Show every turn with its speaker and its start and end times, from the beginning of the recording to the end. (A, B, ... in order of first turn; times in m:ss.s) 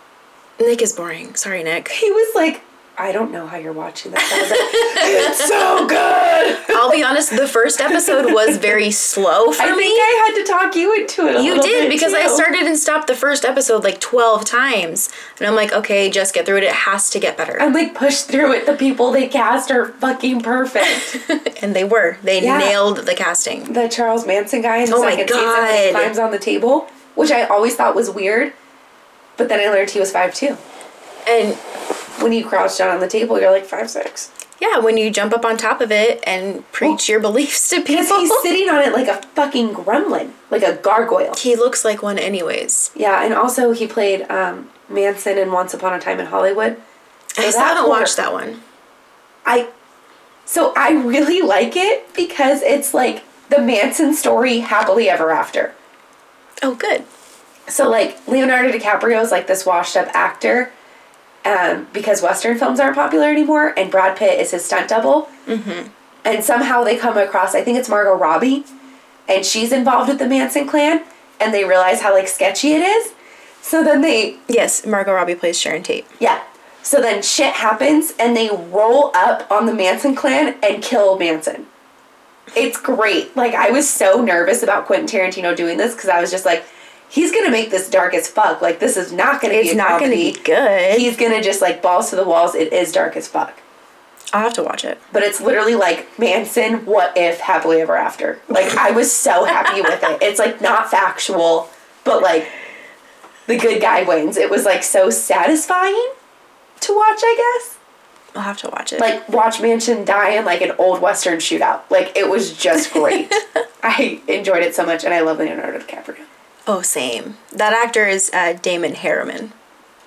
0:00.6-0:02.0 A
0:01.9-0:07.0 B
0:04.2-0:05.7 A
0:06.7-0:10.1 A
0:07.8-0:08.8 B
0:09.6-0:12.5 B
0:11.3-0:17.7 A
0:17.6-0:21.2 B
0:20.8-0:23.7 A
0:22.4-0:22.8 B
0:23.7-0:28.5 B
0:24.9-0:26.1 A
0:29.4-0:30.6 B
0:31.2-0:31.6 A
0:32.2-0:34.3 B
0:34.6-0:38.5 A
0:37.9-0:41.4 B
0:41.4-0:42.9 A
0:42.9-0:46.8 B
0:47.4-0:48.6 A
0:47.4-0:48.1 B
0:49.4-0:49.7 B
0:50.4-0:55.7 B
0:56.6-0:57.1 A
0:57.7-1:00.7 B
1:01.4-1:05.3 B
1:05.5-1:05.9 A
1:06.2-1:08.7 B
1:09.3-1:14.4 B
1:14.5-1:16.1 A
1:16.2-1:21.7 B
1:22.5-1:30.4 B
1:29.5-1:31.1 A
1:30.9-1:33.6 B
1:34.3-1:35.0 A
1:35.1-1:42.5 B
1:43.5-1:46.1 B
1:46.8-1:47.8 B
1:48.3-1:49.1 A
1:49.0-1:56.3 B
1:53.0-1:53.5 A
1:56.7-1:59.5 A